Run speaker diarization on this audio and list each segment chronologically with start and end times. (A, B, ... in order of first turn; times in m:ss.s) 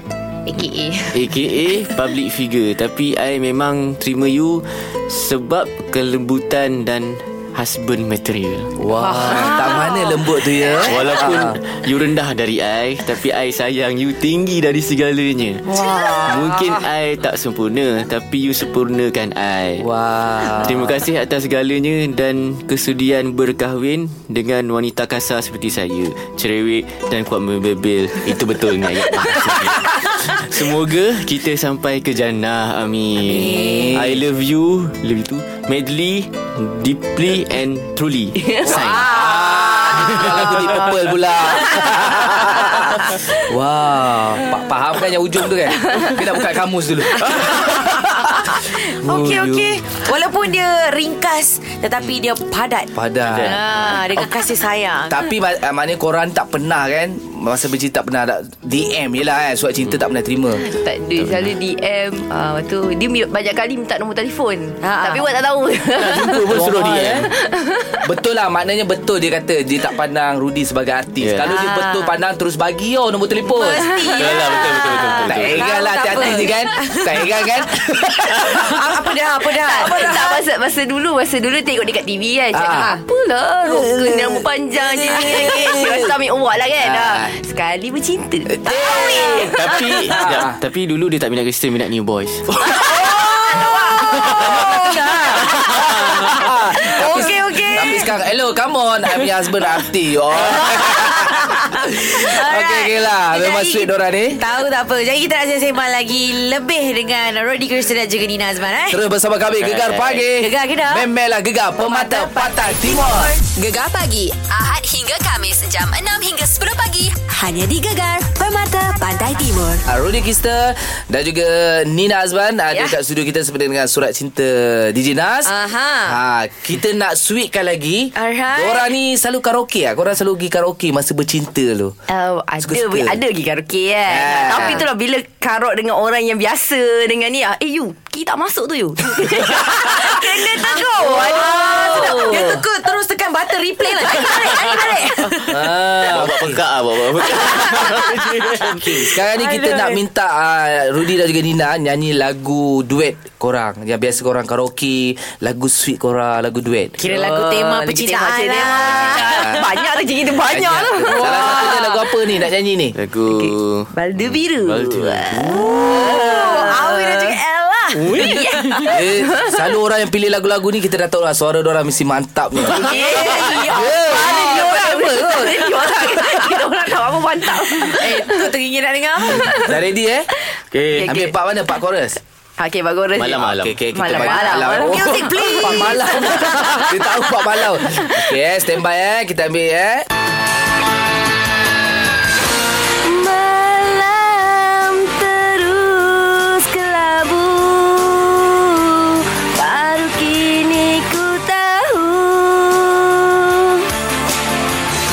0:00.5-0:01.2 A
0:01.1-0:08.7 B
0:08.8-0:11.6 C
0:08.9-0:10.2 D
0:10.8-0:15.6 B
0:15.7-0:16.8 D
0:16.2-0:19.8 B
0:19.8-0:21.0 C
0:20.6-0:39.1 B
0:33.2-0:34.0 D
0:33.5-0:34.2 C
0:38.4-0:39.0 A
0:38.7-0:49.8 C
0:38.8-0:40.3 D
0:40.1-0:40.9 B
0:41.6-0:42.0 D
0:45.9-0:46.2 A
0:47.3-0:55.3 D
0:52.9-0:53.5 C
0:53.3-0:54.2 B
0:55.1-1:00.6 C
1:00.6-1:06.6 A
1:01.2-1:01.5 B
1:04.8-1:05.2 D
1:05.9-1:07.3 B
1:06.5-1:07.3 C
1:07.4-1:08.0 A
1:08.0-1:13.8 C
1:11.2-1:11.5 B
1:11.4-1:12.2 D
1:13.5-1:17.5 D
1:13.7-1:14.5 A
1:14.2-1:15.6 B
1:15.2-1:18.9 C
1:18.4-1:20.4 D
1:19.5-1:29.6 A
1:22.5-1:22.9 C
1:22.7-1:23.0 D
1:23.6-1:26.1 C
1:25.2-1:25.7 D
1:26.8-1:27.3 C
1:28.6-1:29.5 C
1:28.7-1:29.5 D
1:29.5-1:32.6 B
1:30.1-1:30.6 C
1:32.8-1:35.2 D
1:33.5-1:34.1 A
1:34.2-1:34.5 B
1:34.4-1:41.7 C
1:35.5-1:36.4 B
1:36.7-1:38.1 D
1:40.4-1:49.0 D
1:42.2-1:44.4 C
1:48.9-1:53.3 C
1:49.6-1:50.2 B
1:50.3-1:51.1 D
1:51.8-1:53.3 D
1:53.5-1:59.8 E
1:59.9-2:05.5 C
2:05.4-2:06.2 D
2:06.0-2:11.9 C
2:08.2-2:08.9 D
2:12.1-2:22.6 A
2:12.6-2:13.2 C
2:14.1-2:14.8 C
2:14.5-2:14.8 D
2:19.9-2:25.6 D
2:21.0-2:22.6 C
2:24.3-2:24.8 B
2:25.5-2:26.6 C
2:26.0-2:29.0 B
2:27.4-2:28.1 D
2:28.8-2:37.0 C
2:29.2-2:30.0 D
2:37.0-2:39.6 D
2:37.0-2:42.0 A
2:39.1-2:39.7 C
2:40.4-2:42.9 C
2:42.9-2:46.1 B
2:43.3-2:47.4 A
2:45.7-2:48.3 D
2:47.9-2:49.6 A
2:47.9-2:48.9 B
2:48.9-2:52.9 C
2:52.7-2:58.5 A
2:52.9-2:53.6 B
2:52.9-2:53.8 D
2:53.7-2:56.6 C
2:57.8-2:59.8 D
2:59.3-2:59.6 A
2:59.6-3:00.3 C
3:00.7-3:01.1 B
3:00.9-3:01.3 A
3:01.0-3:02.2 C
3:02.6-3:07.2 A
3:03.1-3:04.3 B
3:03.3-3:10.0 C
3:04.4-3:06.6 D
3:07.8-3:08.3 A
3:13.0-3:23.9 A